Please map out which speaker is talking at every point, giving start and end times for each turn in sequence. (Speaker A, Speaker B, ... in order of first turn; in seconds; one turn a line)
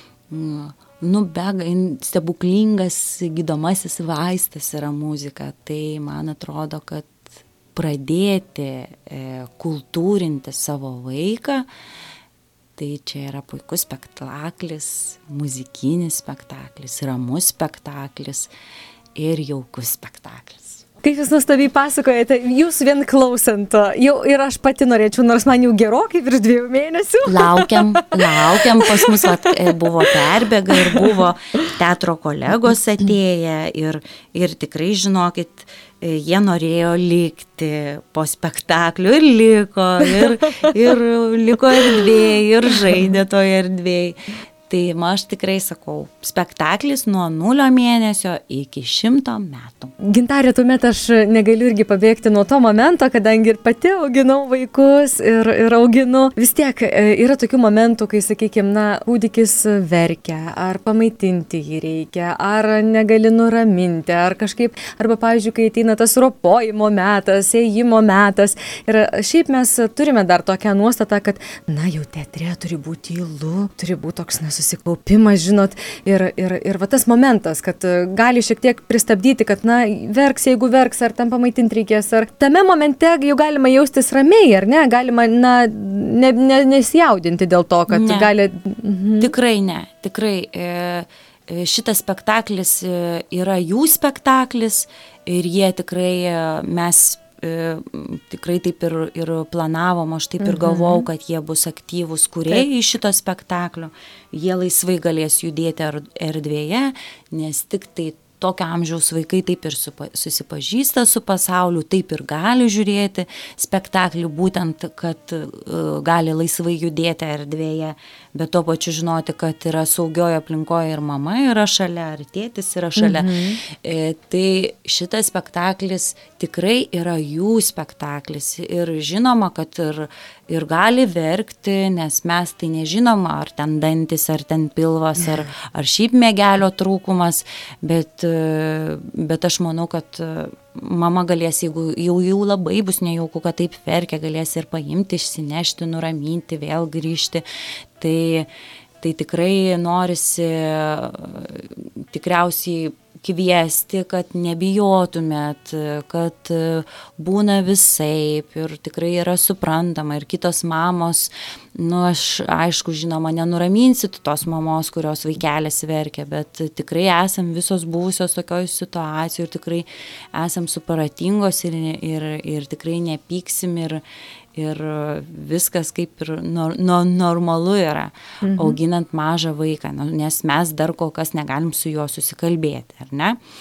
Speaker A: 0.3-7.2
Speaker A: 7.7-11.7
Speaker A: 12.8-18.5
Speaker A: 19.1-20.8
Speaker B: 21.0-29.4
Speaker A: 27.2-49.9
Speaker B: 30.7-31.1
Speaker B: 50.0-89.3
Speaker A: 87.9-88.3
Speaker A: 89.2-147.4
Speaker B: 100.4-101.1
Speaker B: 123.0-123.6
Speaker A: 148.0-148.5
Speaker A: 149.0-174.0
Speaker A: 174.6-183.4
Speaker B: 178.4-178.8